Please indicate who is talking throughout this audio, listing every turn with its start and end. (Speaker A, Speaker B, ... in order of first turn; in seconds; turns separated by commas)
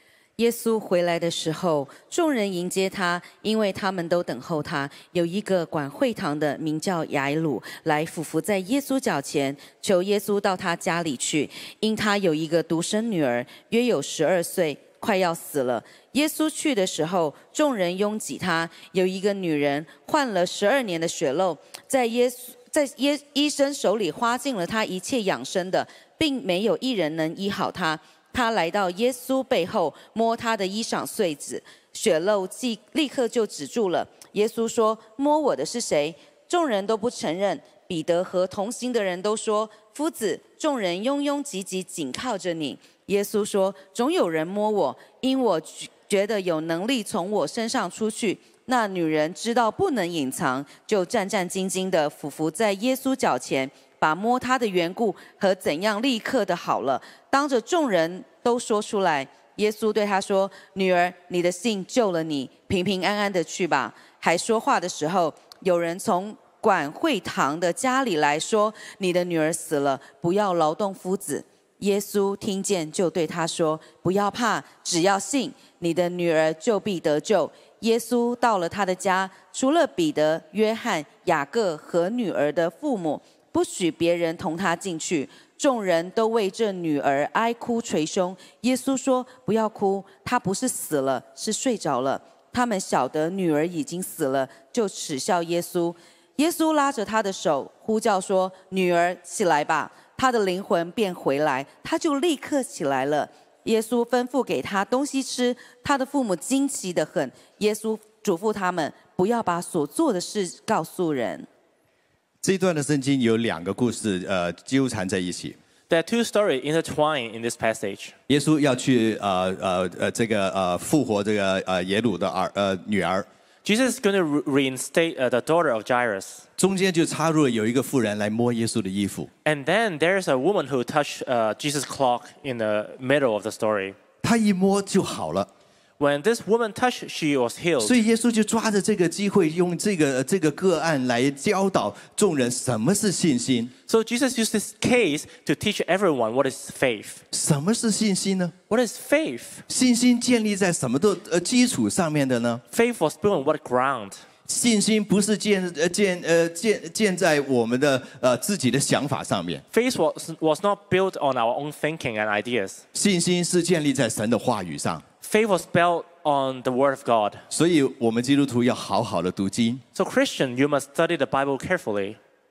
Speaker A: 0.4-111.5, Speaker B: 112.4-115.6, Speaker C: 115.9-118.1, Speaker B: 118.3-123.3, Speaker C: 123.6-126.4, Speaker B: 126.6-129.3, Speaker C: 129.4-134.0, Speaker B: 134.2-135.5, Speaker C: 136.0-137.9, Speaker B: 137.8-143.7, Speaker C: 143.9-147.2, Speaker B: 147.3-148.5, Speaker C: 148.7-149.6, Speaker B: 149.7-152.6, Speaker C: 152.7-154.2, Speaker B: 154.5-159.6, Speaker C: 159.7-162.8, Speaker B: 162.9-165.0, Speaker C: 165.2-167.4, Speaker B: 167.5-169.8, Speaker C: 169.9-172.2